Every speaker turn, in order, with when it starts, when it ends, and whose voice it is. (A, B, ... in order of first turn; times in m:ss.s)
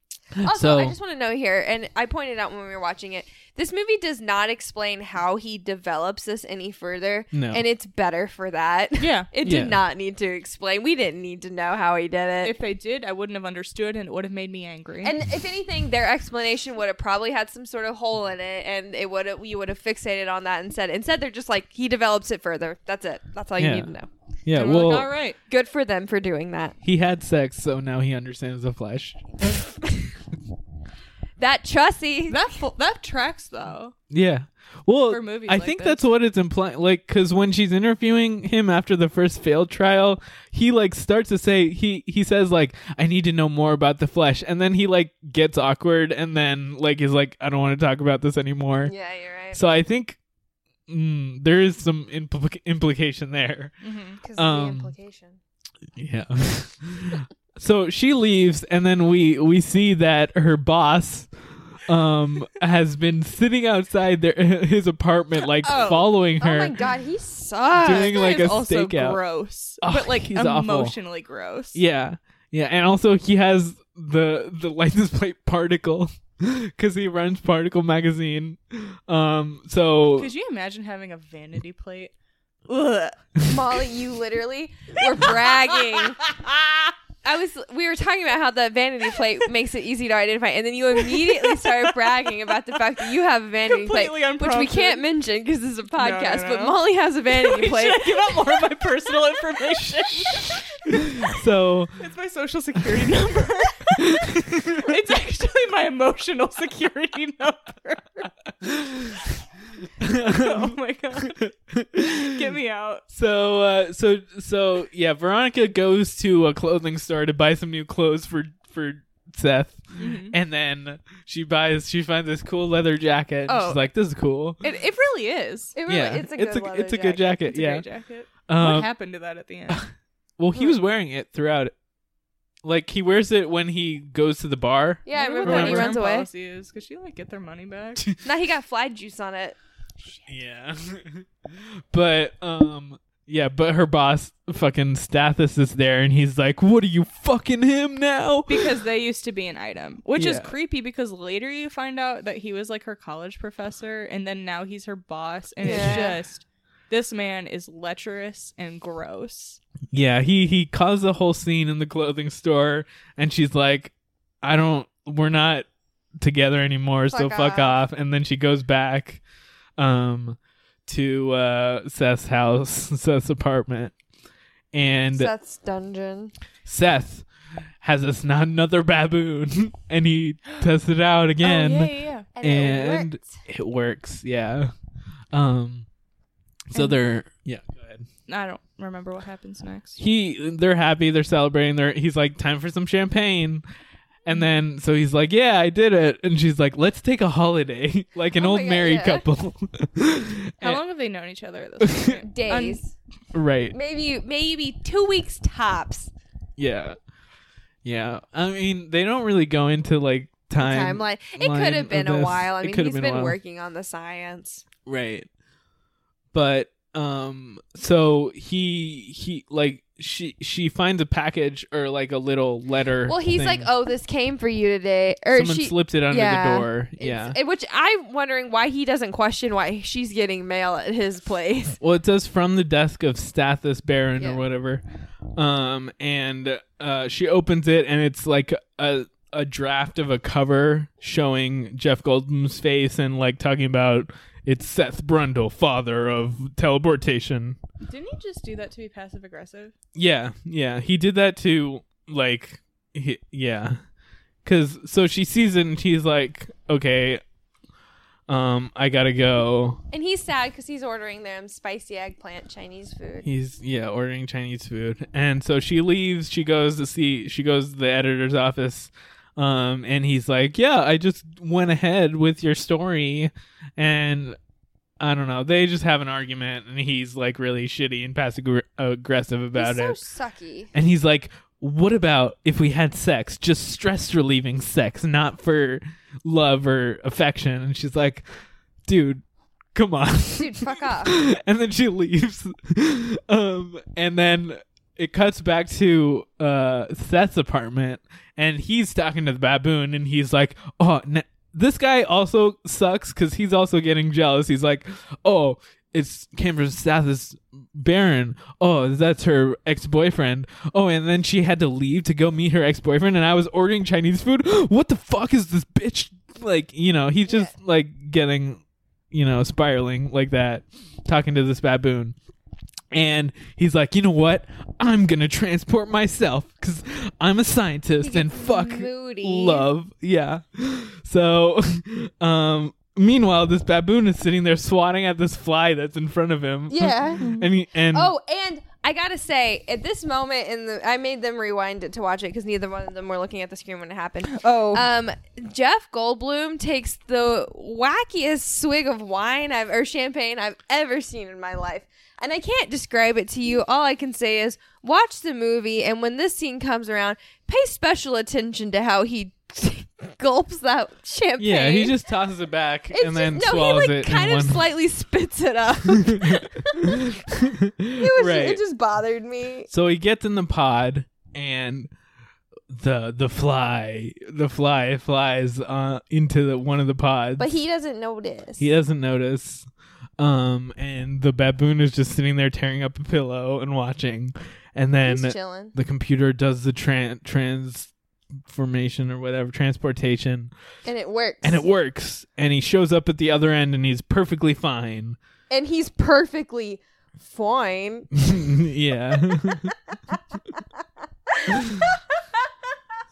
0:00.3-0:01.0 A
0:00.4-0:12.6 B
0:07.3-0:07.6 A
0:09.0-0:09.3 C
0:09.4-0:09.8 A
0:12.4-0:15.1 C
0:15.0-0:24.1 B
0:23.6-0:23.9 A
0:24.5-0:25.1 A
0:24.5-0:25.4 C
0:25.5-0:26.8 B
0:26.8-0:29.5 A
0:31.4-0:32.5 B
0:32.3-0:34.0 C
0:34.1-0:48.9 A
0:35.1-0:36.0 C
0:48.8-0:49.6 B
0:49.5-0:50.2 A
0:50.9-0:53.7 A
0:53.8-0:54.2 C
0:54.2-0:55.4 B
0:54.4-0:54.9 A
0:56.0-1:06.8 A
1:05.6-1:06.1 C
1:05.7-1:08.5 B
1:07.8-1:09.2 A
1:07.9-1:11.8 C
1:09.8-1:11.0 A
1:11.8-1:20.3 A
1:20.2-1:22.1 C
1:22.7-1:23.2 C
1:23.4-1:26.2 B
1:25.2-1:26.9 C
1:27.2-1:38.2 B
1:31.1-1:32.5 C
1:33.7-1:35.0 C
1:36.0-1:41.3 C
1:40.3-1:40.5 A
1:41.2-1:42.0 A
1:42.0-1:48.3 C
1:44.0-1:44.8 A
1:48.6-1:49.2 A
1:50.0-1:52.4 A
1:50.2-1:51.4 C
1:52.0-1:53.0 C
1:53.1-2:04.6 A
2:00.0-2:00.4 C
2:03.5-2:03.8 C
2:04.6-2:05.8 C
2:05.8-2:07.4 B
2:05.9-2:07.8 A
2:07.4-2:09.8 C
2:08.5-2:08.9 A
2:10.4-2:11.7 A
2:12.6-2:16.0 A
2:15.1-2:16.3 B
2:15.1-2:18.1 C
2:18.2-2:19.6 B
2:20.3-2:28.8 A
2:28.5-2:39.6 C
2:30.2-2:30.5 A
2:35.6-2:36.2 B
2:35.6-2:36.1 A
2:39.9-2:45.7 A
2:46.2-2:49.2 A
2:47.1-2:47.8 B
2:49.8-2:54.0 A
2:54.7-2:55.3 A
2:55.1-2:56.3 B
2:56.6-2:57.3 A
2:57.8-3:04.7 A
3:01.4-3:02.3 C
3:02.4-3:03.3 B
3:05.3-3:05.9 A
3:06.7-3:08.1 A
3:06.7-3:07.0 C
3:08.3-3:10.0 C
3:10.0-3:13.6 A
3:14.3-3:20.8 A
3:18.4-3:19.2 B
3:20.6-3:22.8 C
3:21.8-3:22.2 A
3:22.2-3:22.9 B
3:23.3-3:23.8 A
3:23.7-3:26.1 B
3:26.6-3:27.0 A
3:27.8-3:33.4 A
3:30.6-3:34.6 B
3:34.9-3:35.3 A
3:36.3-3:43.7 A
3:43.1-3:51.8 B
3:45.3-3:47.4 A
3:51.8-3:54.8 A
3:54.2-3:54.4 B
3:55.4-4:07.6 A
4:07.8-4:09.7 C
4:10.0-4:13.8 A
4:14.4-4:17.2 A
4:18.3-4:19.8 A
4:19.9-4:23.3 B
4:23.2-4:34.4 A
4:35.0-4:40.0 A
4:39.6-4:40.7 B
4:40.7-4:48.3 A
4:48.9-4:49.2 A
4:49.8-5:22.2 A
4:50.4-4:51.2 B
5:17.3-5:17.5 B
5:22.9-5:38.1 A
5:28.0-5:29.7 B
5:36.7-5:37.2 B
5:37.2-5:37.5 C
5:37.9-6:02.0 B
5:44.3-5:44.9 C
6:01.4-6:04.6 A
6:02.9-6:07.2 B
6:05.9-6:08.6 A
6:08.0-6:09.7 B
6:09.7-6:11.9 A
6:12.7-6:17.6 A
6:17.4-6:18.7 B
6:18.6-6:19.7 A
6:20.2-6:27.9 A
6:25.0-6:25.7 B
6:28.5-6:30.5 A
6:30.8-6:31.7 B
6:31.4-6:35.2 A
6:35.5-6:38.1 B
6:38.2-6:39.7 A
6:39.5-6:40.6 B
6:41.3-6:42.4 B
6:41.5-6:41.8 A